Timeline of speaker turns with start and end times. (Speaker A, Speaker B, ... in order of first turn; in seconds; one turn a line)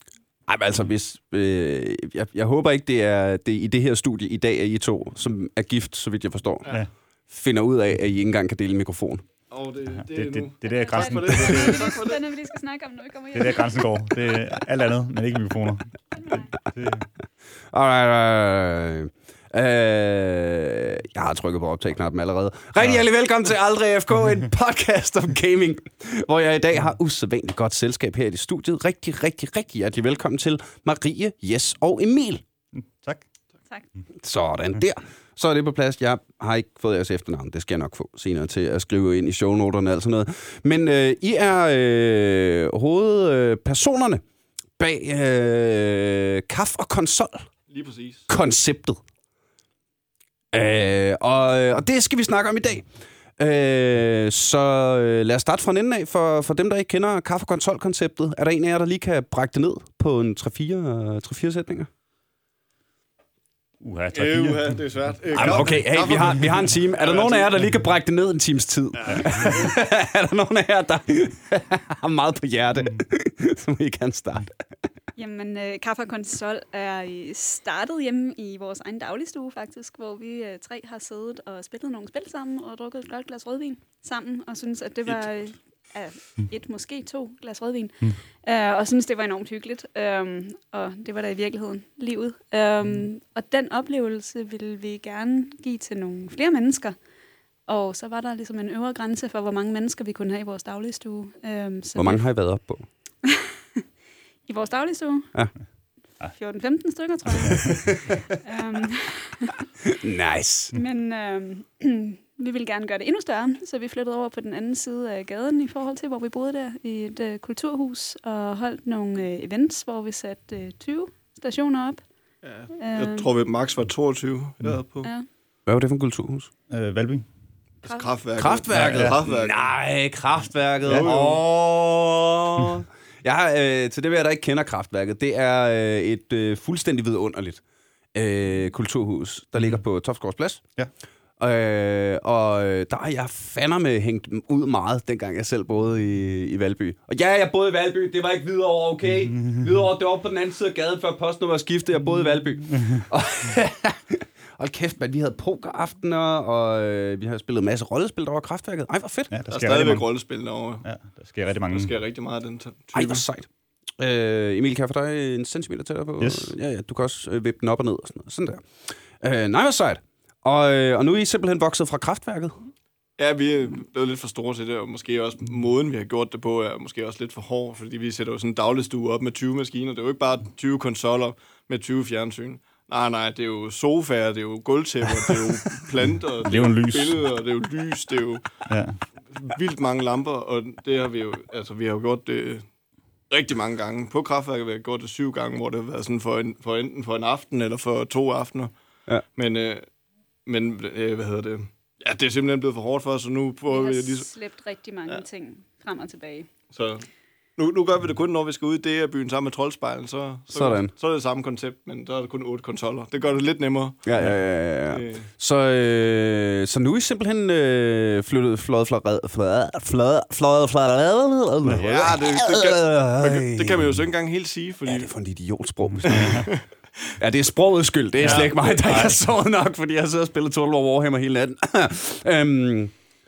Speaker A: 0.5-6.8
Speaker A: 7.3-9.2
Speaker B: 9.5-12.2
Speaker C: 10.0-11.9
Speaker D: 10.7-13.8
Speaker C: 13.3-15.9
Speaker D: 16.1-16.5
Speaker C: 16.7-17.1
Speaker A: 17.7-32.4
Speaker C: 32.8-33.2
Speaker A: 34.2-44.2
Speaker A: 44.8-47.5
Speaker B: 47.7-48.2
Speaker A: 48.3-49.0
Speaker A: 50.5-61.9
Speaker C: 63.8-64.8
Speaker B: 64.1-67.5
Speaker A: 65.3-74.6
Speaker C: 65.3-65.7
Speaker B: 68.9-69.7
Speaker C: 69.1-69.5
Speaker D: 75.2-97.0
Speaker D: 97.7-102.2
Speaker A: 102.0-102.8
Speaker D: 103.2-103.8
Speaker D: 104.5-105.3
Speaker D: 106.2-109.5
Speaker A: 107.5-108.0
Speaker A: 109.9-110.7
Speaker D: 110.7-122.0
Speaker B: 122.4-125.1
Speaker D: 122.8-123.3
Speaker A: 125.7-126.5
Speaker C: 126.7-127.2
Speaker D: 127.8-128.1
Speaker B: 127.8-129.7
Speaker A: 128.3-137.6
Speaker C: 128.7-129.2
Speaker B: 130.9-131.4
Speaker A: 138.1-140.6
Speaker A: 141.4-159.3
Speaker C: 159.3-160.1
Speaker B: 159.5-160.8
Speaker C: 160.8-161.9
Speaker B: 161.7-163.2
Speaker A: 162.9-163.5
Speaker A: 164.0-172.5
Speaker C: 166.2-166.5
Speaker B: 173.2-188.5
Speaker C: 186.4-187.2
Speaker C: 188.7-189.0
Speaker B: 189.3-192.6
Speaker B: 193.3-198.7
Speaker B: 199.3-199.8
Speaker B: 200.4-204.3
Speaker D: 203.7-206.5
Speaker B: 206.7-207.0
Speaker B: 207.6-214.1
Speaker A: 210.5-210.9
Speaker A: 214.0-224.0
Speaker B: 214.9-215.2
Speaker B: 221.8-225.1
Speaker A: 224.8-226.5
Speaker C: 225.9-226.4
Speaker B: 226.0-226.6
Speaker A: 227.2-232.9
Speaker C: 228.2-229.0
Speaker B: 228.2-229.2